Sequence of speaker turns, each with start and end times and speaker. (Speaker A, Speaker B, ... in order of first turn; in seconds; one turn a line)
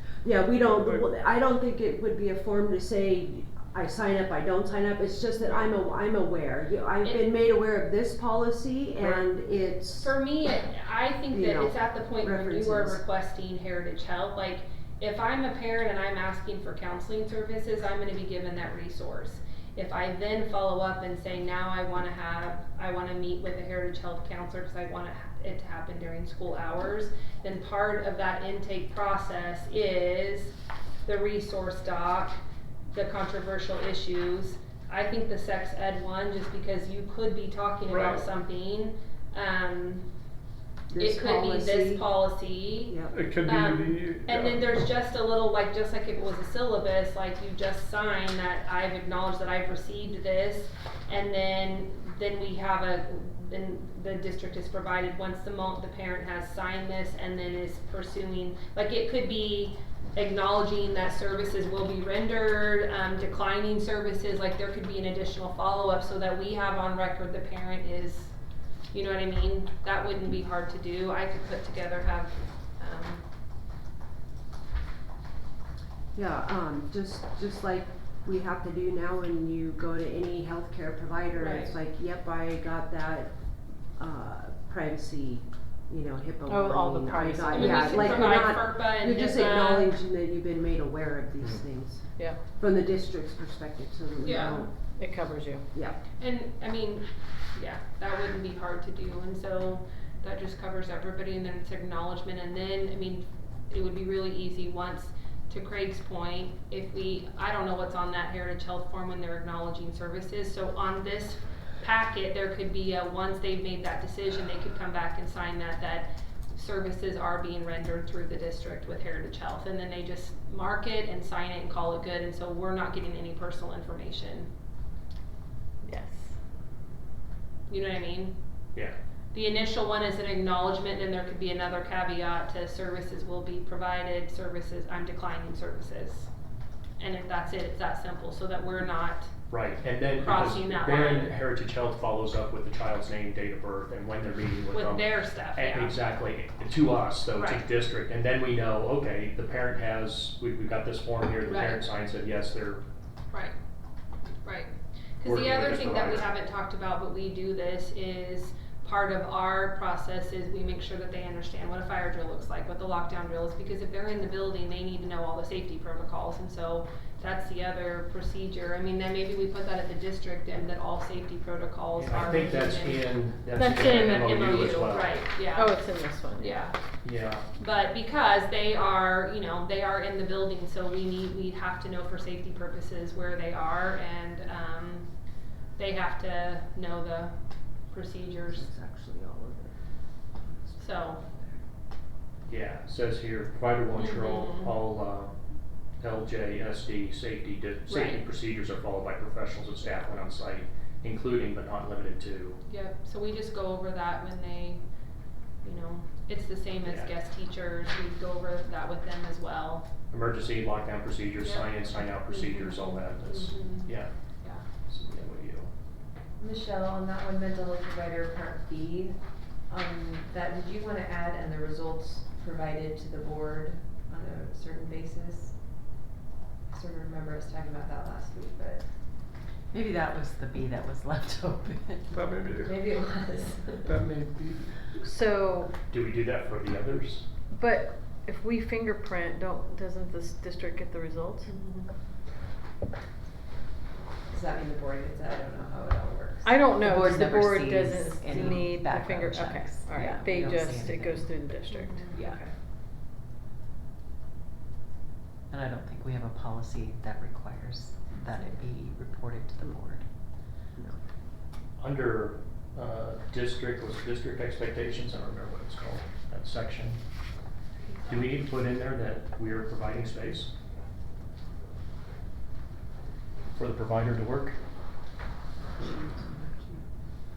Speaker A: 0.2-10.1
Speaker B: 0.7-1.0
Speaker C: 10.0-30.6
Speaker A: 11.3-13.0
Speaker C: 31.1-32.4
Speaker C: 32.9-40.0
Speaker B: 37.9-38.3
Speaker A: 40.9-42.1
Speaker C: 41.0-68.3
Speaker A: 42.9-43.2
Speaker B: 43.1-44.7
Speaker C: 68.9-73.2
Speaker A: 76.2-83.3
Speaker C: 81.4-81.8
Speaker A: 84.0-94.7
Speaker D: 86.5-88.4
Speaker C: 87.5-89.9
Speaker C: 94.2-94.7
Speaker D: 95.0-95.6
Speaker A: 95.7-96.0
Speaker C: 96.2-124.5
Speaker D: 125.9-126.3
Speaker C: 127.7-128.4
Speaker C: 129.3-136.3
Speaker C: 137.0-139.3
Speaker E: 139.5-152.8
Speaker C: 140.2-141.4
Speaker C: 144.7-146.0
Speaker C: 147.3-147.6
Speaker C: 151.5-151.8
Speaker C: 154.4-176.8
Speaker E: 155.2-156.3
Speaker E: 172.0-175.2
Speaker D: 173.6-174.6
Speaker D: 175.4-176.6
Speaker E: 177.0-177.4
Speaker C: 177.6-185.1
Speaker C: 185.8-187.3
Speaker C: 187.9-188.7
Speaker A: 188.5-189.8
Speaker A: 190.4-191.6
Speaker C: 190.8-191.2
Speaker E: 192.5-195.3
Speaker C: 194.0-194.7
Speaker E: 196.0-202.6
Speaker C: 197.9-198.2
Speaker C: 202.7-204.8
Speaker C: 205.6-209.9
Speaker E: 206.8-207.1
Speaker E: 210.1-214.1
Speaker C: 211.4-211.7
Speaker C: 212.3-214.7
Speaker E: 214.9-215.7
Speaker F: 216.4-219.2
Speaker F: 219.7-225.5
Speaker F: 226.7-228.8
Speaker G: 229.7-232.2
Speaker B: 232.1-232.9
Speaker F: 232.6-234.0
Speaker B: 233.8-234.8
Speaker D: 235.0-235.7
Speaker E: 235.9-237.2
Speaker D: 237.5-241.5
Speaker F: 244.3-246.6
Speaker D: 246.4-252.5
Speaker G: 246.7-251.4
Speaker C: 251.7-252.2
Speaker G: 255.5-260.1
Speaker E: 261.8-267.0
Speaker E: 268.1-270.5
Speaker E: 273.6-274.6
Speaker A: 275.8-276.9